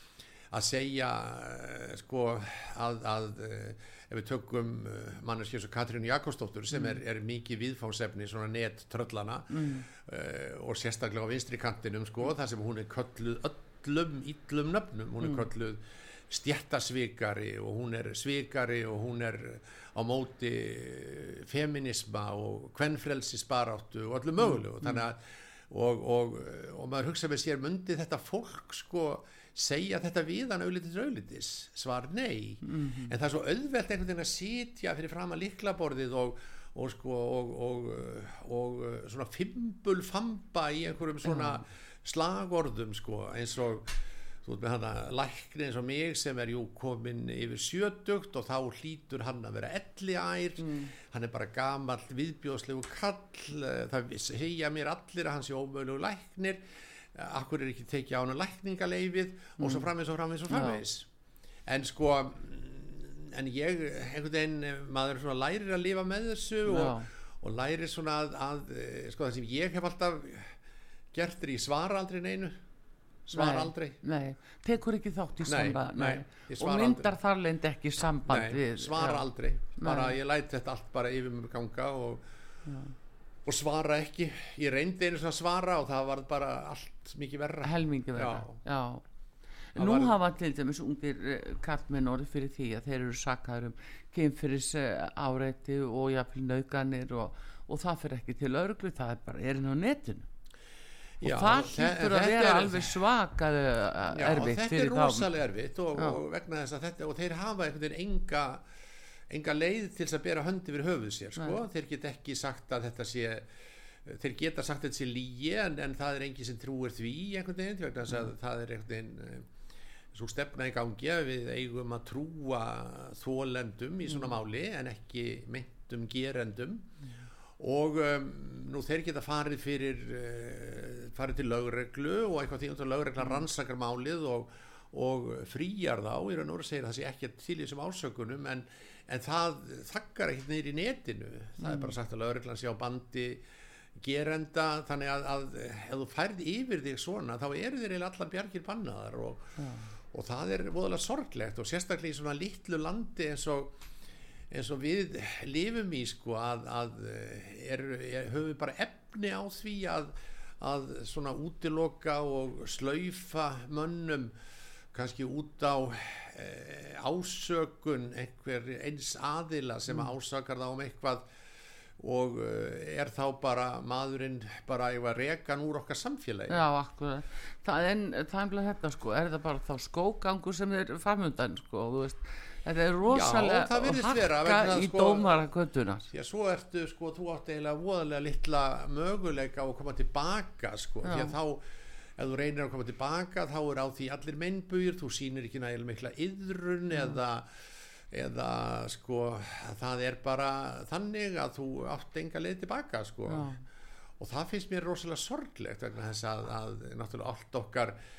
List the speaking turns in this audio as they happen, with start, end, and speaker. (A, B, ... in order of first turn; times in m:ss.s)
0:00.5-1:01.1 A
0:06.7-0:07.0 B
0:09.5-0:09.9 B
0:24.4-0:25.0 B
0:32.6-0:33.1 B
0:41.2-0:41.6 B
0:50.6-0:50.9 B
0:59.6-0:59.9 B
1:00.5-1:00.8 B
1:01.6-1:10.6 A
1:06.6-1:07.1 B
1:11.1-1:12.6 A
1:13.2-1:14.0 A
1:13.3-1:19.2 B
1:15.4-1:17.1 A
1:18.3-1:22.2 A
1:19.8-1:20.2 B
1:22.6-1:22.9 B
1:23.4-1:28.6 A
1:27.6-1:29.0 B
1:29.7-1:40.3 B
1:29.8-1:30.1 A
1:41.2-1:43.0 A
1:41.2-1:45.3 B
1:44.1-1:48.6 A
1:49.3-1:59.5 A
2:00.1-2:06.9 A
2:07.6-2:23.4 A
2:21.6-2:21.9 B
2:24.0-2:29.6 A
2:29.6-2:29.9 B
2:30.1-2:33.8 A
2:34.5-2:44.3 A
2:44.9-2:51.3 A
2:52.0-2:56.6 A
2:56.5-3:06.1 B
3:03.1-3:05.4 A
3:06.1-3:23.5 A
3:11.0-3:11.3 B
3:23.3-3:23.6 B
3:24.2-3:28.0 A